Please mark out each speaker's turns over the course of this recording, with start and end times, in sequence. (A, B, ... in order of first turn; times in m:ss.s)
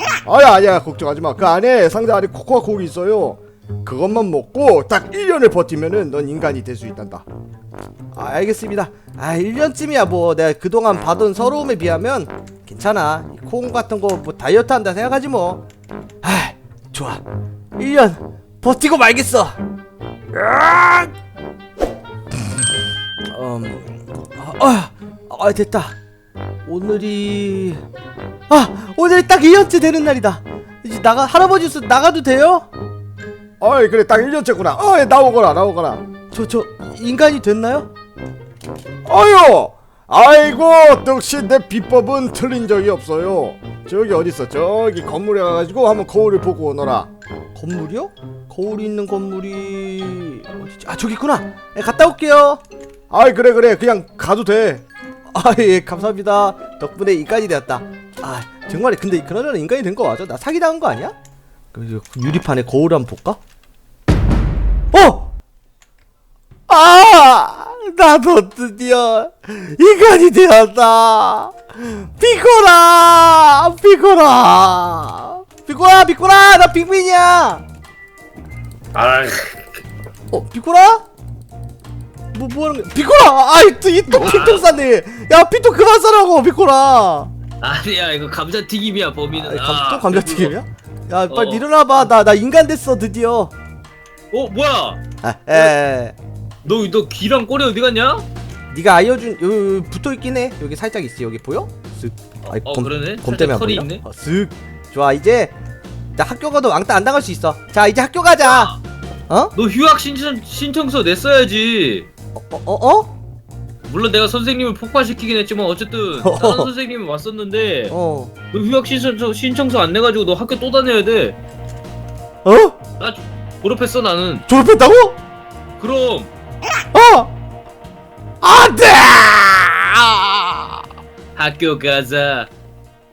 0:00.2-0:07.2 A
0:08.1-0:15.6 B
0:16.2-0:17.2 B
0:17.8-0:19.6 B
0:20.3-0:21.1 B
0:23.3-0:25.9 B
0:26.6-0:27.8 B
0:28.5-0:32.6 B
0:33.6-0:36.0 A
0:36.3-0:37.9 B
0:39.0-0:47.1 A
0:47.5-0:52.6 B
0:53.1-0:53.6 A
0:53.6-1:01.1 B
1:01.7-1:03.4 B
1:04.9-1:05.3 B
1:06.7-1:17.6 B
1:18.9-1:19.8 C
1:20.3-1:21.0 B
1:22.3-1:27.3 B
1:24.2-1:24.7 C
1:27.6-1:30.5 C
1:29.3-1:33.5 B
1:31.3-1:32.0 C
1:34.3-1:35.8 C
1:35.2-1:36.1 B
1:36.6-1:38.2 C
1:38.7-1:45.5 B
1:42.5-1:44.0 C
1:46.2-1:48.8 B
1:48.4-1:48.8 C
1:49.3-1:49.5 B
1:49.5-1:52.0 C
1:52.4-1:53.1 B
1:53.8-1:57.9 C
1:56.2-1:56.7 B
1:57.9-1:58.3 B
1:58.5-2:01.4 C
2:02.4-2:02.8 B
2:03.0-2:04.4 C
2:04.4-2:05.2 B
2:05.8-2:06.3 C
2:06.9-2:07.3 B
2:08.4-2:10.8 B
2:11.4-2:12.5 C